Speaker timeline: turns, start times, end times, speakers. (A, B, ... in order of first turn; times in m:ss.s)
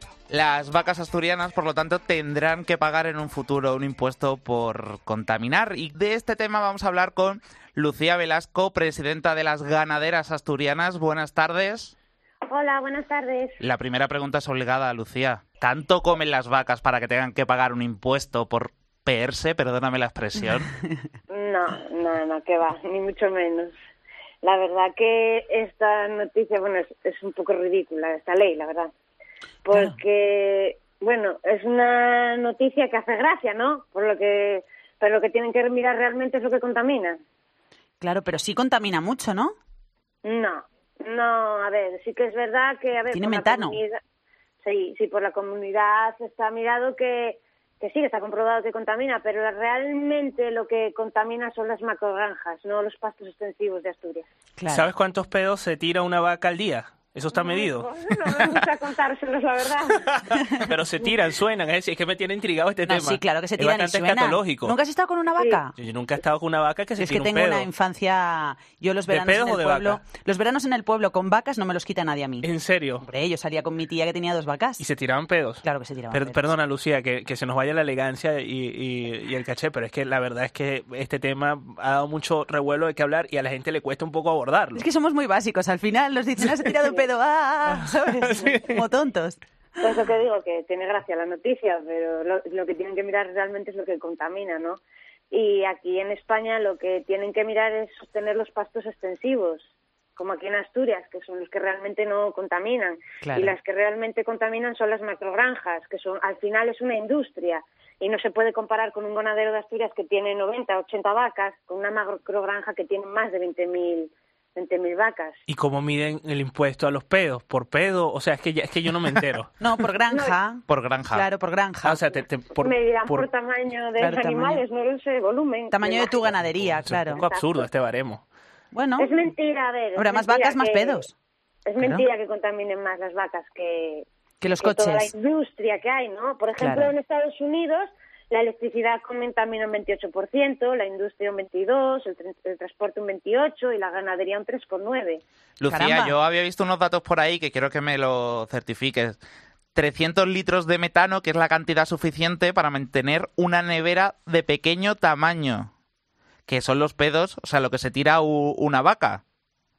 0:00.3-0:11.9 A
0:12.5-0:13.6 B
0:13.6-0:20.7 A
0:21.3-0:23.7 B
0:24.4-0:28.9 B
0:29.6-0:37.2 B
0:29.7-0:30.0 C
0:38.0-0:39.6 C
0:40.2-0:44.0 B
0:43.1-0:43.8 C
0:44.6-0:54.3 B
0:54.6-0:54.9 C
0:54.7-0:57.9 D
0:57.3-1:00.2 B
1:00.1-1:04.8 D
1:02.8-1:05.7 C
1:05.8-1:07.7 D
1:07.0-1:12.5 C
1:09.1-1:10.0 D
1:12.4-1:13.0 D
1:13.0-1:14.8 C
1:14.8-1:24.8 D
1:15.6-1:16.5 C
1:24.8-1:29.4 C
1:28.0-1:28.8 D
1:29.8-1:34.8 B
1:35.3-1:55.4 B
1:43.2-1:43.5 C
1:55.5-1:59.5 D
1:59.6-2:02.0 C
2:00.1-2:00.4 B
2:00.7-2:01.2 A
2:01.8-2:03.3 D
2:02.6-2:06.3 B
2:04.0-2:04.6 C
2:05.7-2:07.2 C
2:06.8-2:08.2 D
2:07.1-2:07.6 B
2:08.7-2:09.1 C
2:09.0-2:11.0 B
2:10.0-2:11.1 C
2:11.6-2:14.0 B
2:11.8-2:12.0 C
2:14.4-2:15.1 C
2:14.6-2:25.2 B
2:16.6-2:16.9 C
2:25.6-2:29.2 A
2:25.7-2:26.2 C
2:29.7-2:35.7 A
2:36.5-2:39.2 A